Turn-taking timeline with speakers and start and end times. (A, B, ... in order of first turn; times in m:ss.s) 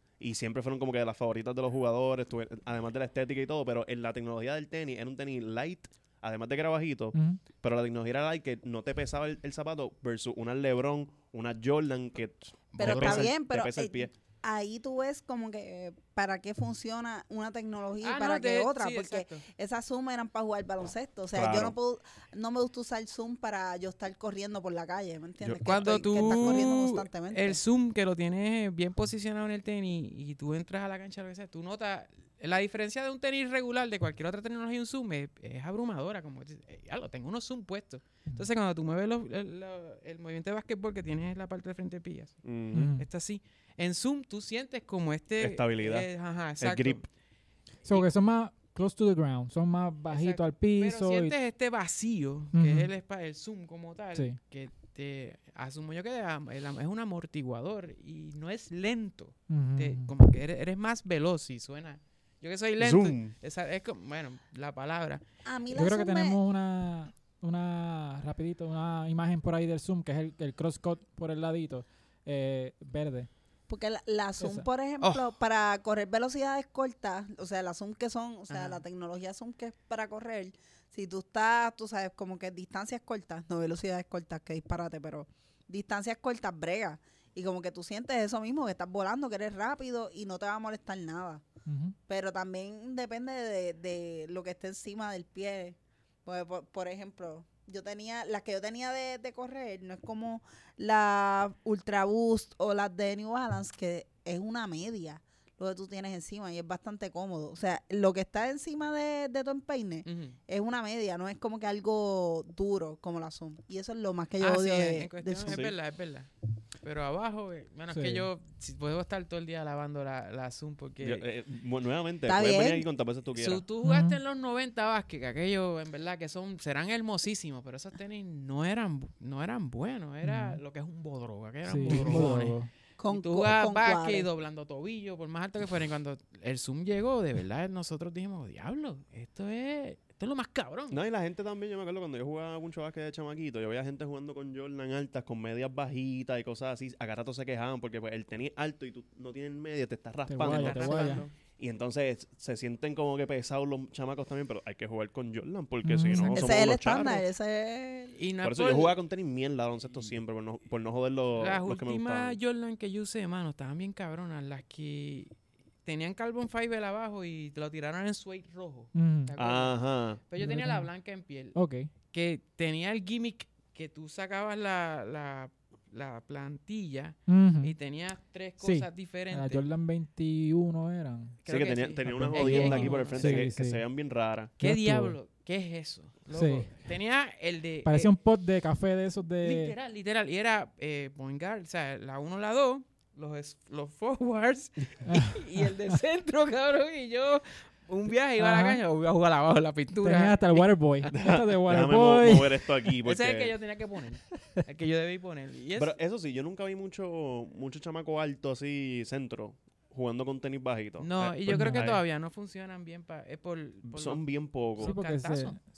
0:00.2-0:14.1 A
0:07.1-0:07.4 B
0:12.7-0:13.3 C
0:12.8-0:27.6 D
0:18.0-0:19.4 C
0:21.3-0:21.7 A
0:25.4-0:26.7 A
0:25.6-0:47.1 C
0:42.4-0:42.9 A
0:42.7-0:43.0 B
0:45.4-0:47.0 A
0:47.8-0:51.3 B
0:50.1-1:05.2 C
0:52.5-0:52.9 B
0:59.5-1:00.1 B
1:02.8-1:03.3 A
1:05.4-1:06.4 D
1:05.7-1:13.3 B
1:13.7-1:31.4 D
1:14.4-1:14.7 B
1:15.0-1:15.3 C
1:18.5-1:18.8 C
1:31.6-1:32.0 B
1:32.1-1:55.6 D
1:50.0-1:50.4 C
1:54.4-1:56.3 C
1:55.4-1:55.7 A
1:56.8-2:01.2 C
1:57.9-1:58.3 B
2:01.0-2:03.6 A
2:02.2-2:02.8 D
2:03.3-2:12.6 C
2:03.8-2:04.2 B
2:10.2-2:10.6 B
2:11.6-2:12.7 B
2:13.0-2:14.3 D
2:13.1-2:21.0 C
2:20.9-2:37.3 A
2:30.3-2:31.2 B
2:30.4-2:31.3 C
2:35.8-2:36.4 B
2:36.1-2:36.5 C
2:36.3-2:38.2 D
2:38.2-2:39.0 C
2:38.4-2:42.4 A
2:41.4-2:45.3 C
2:45.8-2:51.6 C
2:48.9-2:49.3 B
2:49.4-2:50.2 A
2:50.4-2:50.9 B
2:51.5-2:51.9 B
2:52.1-2:59.6 C
2:57.3-2:57.7 B
2:58.6-3:01.4 B
3:01.4-3:03.5 C
3:01.4-3:04.5 A
3:02.0-3:03.8 B
3:04.6-3:08.1 C
3:04.6-3:05.2 B
3:06.3-3:06.7 B
3:07.8-3:09.7 B
3:09.4-3:21.1 C
3:15.0-3:15.6 B
3:18.4-3:18.8 B
3:20.0-3:22.7 B
3:21.1-3:23.5 A
3:23.0-3:25.9 C
3:25.8-3:32.0 A
3:31.0-3:35.6 C
3:31.5-3:31.9 B
3:33.9-3:34.9 A
3:34.8-3:35.6 B